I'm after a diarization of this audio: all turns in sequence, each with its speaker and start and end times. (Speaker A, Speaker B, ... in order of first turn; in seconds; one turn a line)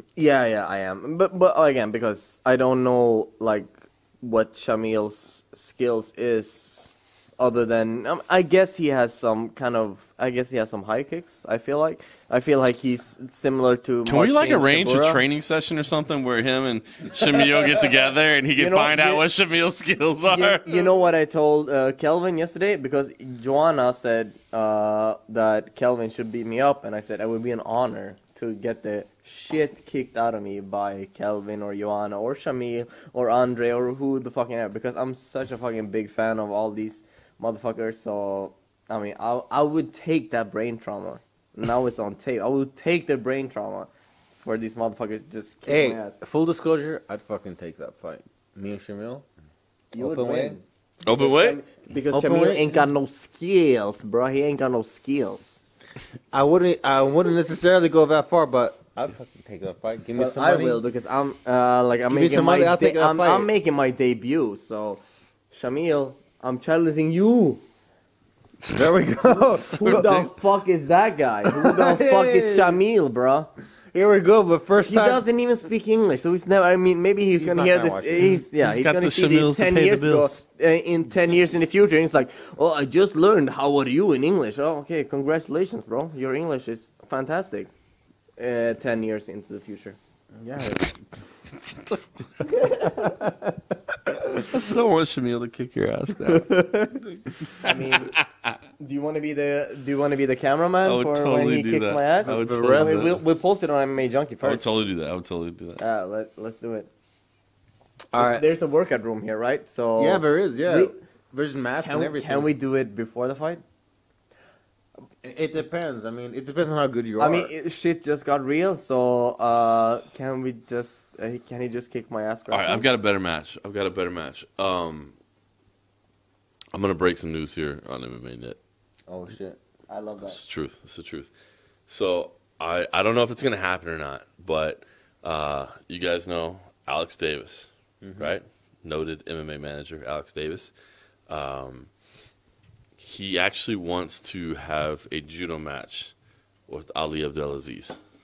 Speaker A: 0.1-15.2
Speaker B: 14.1-20.6
Speaker A: 18.6-19.2
Speaker A: 20.3-43.9
Speaker A: 44.4-46.2
Speaker C: 45.7-49.2
Speaker A: 49.9-55.6
Speaker C: 50.0-50.6
Speaker B: 51.0-51.6
Speaker C: 52.1-52.9
Speaker C: 56.3-60.8
Speaker A: 60.1-67.6
Speaker C: 62.1-63.5
Speaker C: 68.7-70.2
Speaker B: 69.7-70.3
Speaker A: 69.8-73.5
Speaker C: 71.5-72.8
Speaker C: 73.9-75.2
Speaker A: 74.8-87.7
Speaker C: 77.4-78.4
Speaker B: 78.2-80.4
Speaker A: 88.4-90.0
Speaker C: 90.3-91.0
Speaker B: 91.6-92.4
Speaker A: 92.5-93.1
Speaker C: 93.0-93.6
Speaker B: 94.4-96.5
Speaker C: 96.5-97.0
Speaker B: 97.4-98.5
Speaker A: 97.6-98.2
Speaker A: 98.8-104.7
Speaker B: 100.8-103.2
Speaker C: 102.2-103.1
Speaker B: 104.4-105.8
Speaker A: 105.8-106.9
Speaker C: 108.1-108.5
Speaker A: 108.2-110.9
Speaker C: 110.0-112.5
Speaker A: 111.8-113.6
Speaker C: 115.2-117.5
Speaker A: 117.2-122.8
Speaker B: 122.5-125.1
Speaker B: 126.7-128.6
Speaker C: 129.1-129.6
Speaker A: 129.9-130.4
Speaker B: 130.2-131.3
Speaker B: 131.9-140.7
Speaker C: 138.0-138.3
Speaker B: 141.3-141.9
Speaker B: 143.0-146.1
Speaker B: 146.7-148.0